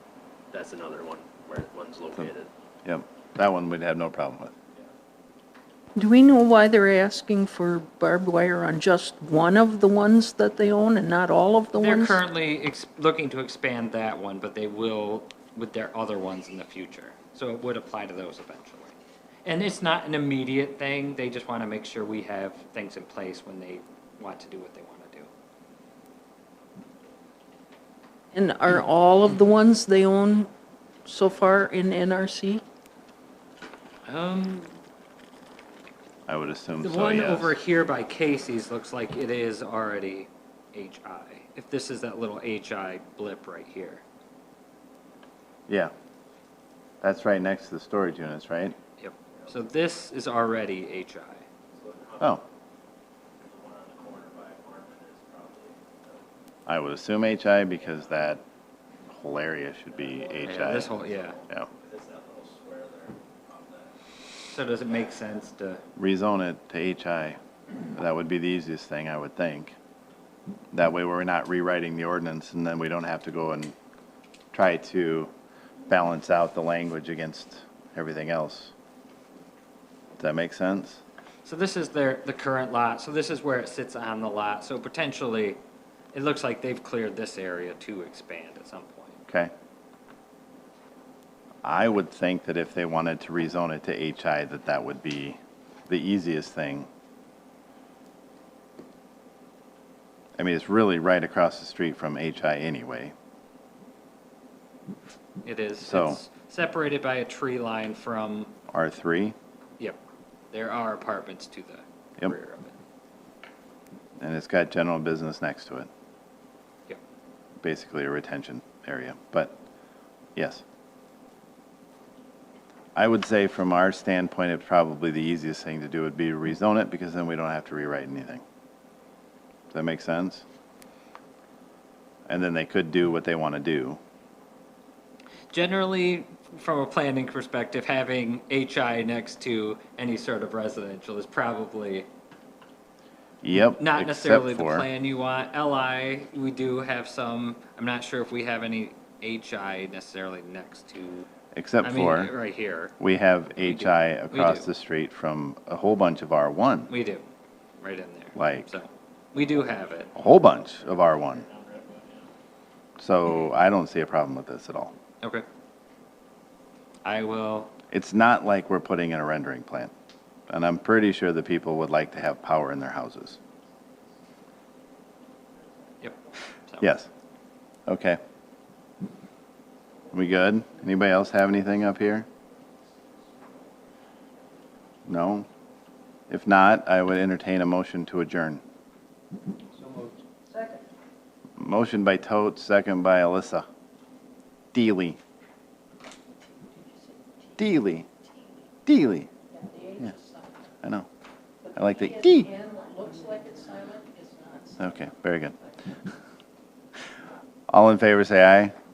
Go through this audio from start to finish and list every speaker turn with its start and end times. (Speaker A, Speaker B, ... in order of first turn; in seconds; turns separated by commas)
Speaker A: 0.5-2.5, Speaker B: 2.8-4.5, Speaker C: 6.0-12.2, Speaker D: 11.8-18.9, Speaker D: 19.4-25.3, Speaker C: 28.3-30.5, Speaker C: 31.1-32.6, Speaker D: 34.0-34.8, Speaker B: 36.3-37.5, Speaker D: 36.8-44.0, Speaker B: 47.0-48.8, Speaker D: 49.0-51.4, Speaker A: 51.7-52.4, Speaker A: 53.4-56.2, Speaker B: 56.6-58.4, Speaker B: 59.1-60.9, Speaker A: 60.1-63.9, Speaker D: 60.4-61.4, Speaker D: 64.4-65.8, Speaker B: 66.0-67.4, Speaker B: 67.9-69.7, Speaker B: 70.7-73.7, Speaker B: 74.5-75.3, Speaker B: 75.9-78.7, Speaker B: 80.2-81.0, Speaker D: 81.4-85.6, Speaker D: 86.1-89.2, Speaker B: 91.6-96.9, Speaker B: 100.4-103.1, Speaker D: 105.4-108.5, Speaker B: 105.8-106.2, Speaker B: 108.7-109.3, Speaker D: 110.5-112.8, Speaker B: 114.2-115.9, Speaker B: 117.6-119.5, Speaker B: 120.3-120.6, Speaker B: 122.9-128.4, Speaker B: 129.7-130.4, Speaker B: 132.3-134.0, Speaker D: 135.5-142.1, Speaker B: 143.4-144.9, Speaker D: 143.8-151.3, Speaker B: 151.5-152.3, Speaker D: 151.8-152.9, Speaker B: 153.0-156.9, Speaker D: 153.5-154.7, Speaker D: 156.9-157.3, Speaker D: 157.8-160.1, Speaker B: 158.3-158.7, Speaker B: 160.1-161.4, Speaker A: 161.4-162.2, Speaker B: 163.0-164.9, Speaker D: 167.0-167.7, Speaker B: 167.9-169.9, Speaker B: 170.5-173.4, Speaker D: 176.0-176.9, Speaker B: 176.8-177.1, Speaker B: 177.8-178.2, Speaker B: 180.1-182.3, Speaker B: 185.1-185.5, Speaker B: 186.3-188.6, Speaker C: 190.5-190.8, Speaker B: 191.6-193.7, Speaker B: 194.7-195.2, Speaker C: 196.8-197.5, Speaker B: 197.6-198.1, Speaker B: 198.8-199.3, Speaker C: 199.5-200.6, Speaker C: 201.6-204.9, Speaker B: 201.7-202.5, Speaker B: 204.8-205.6, Speaker B: 207.7-208.7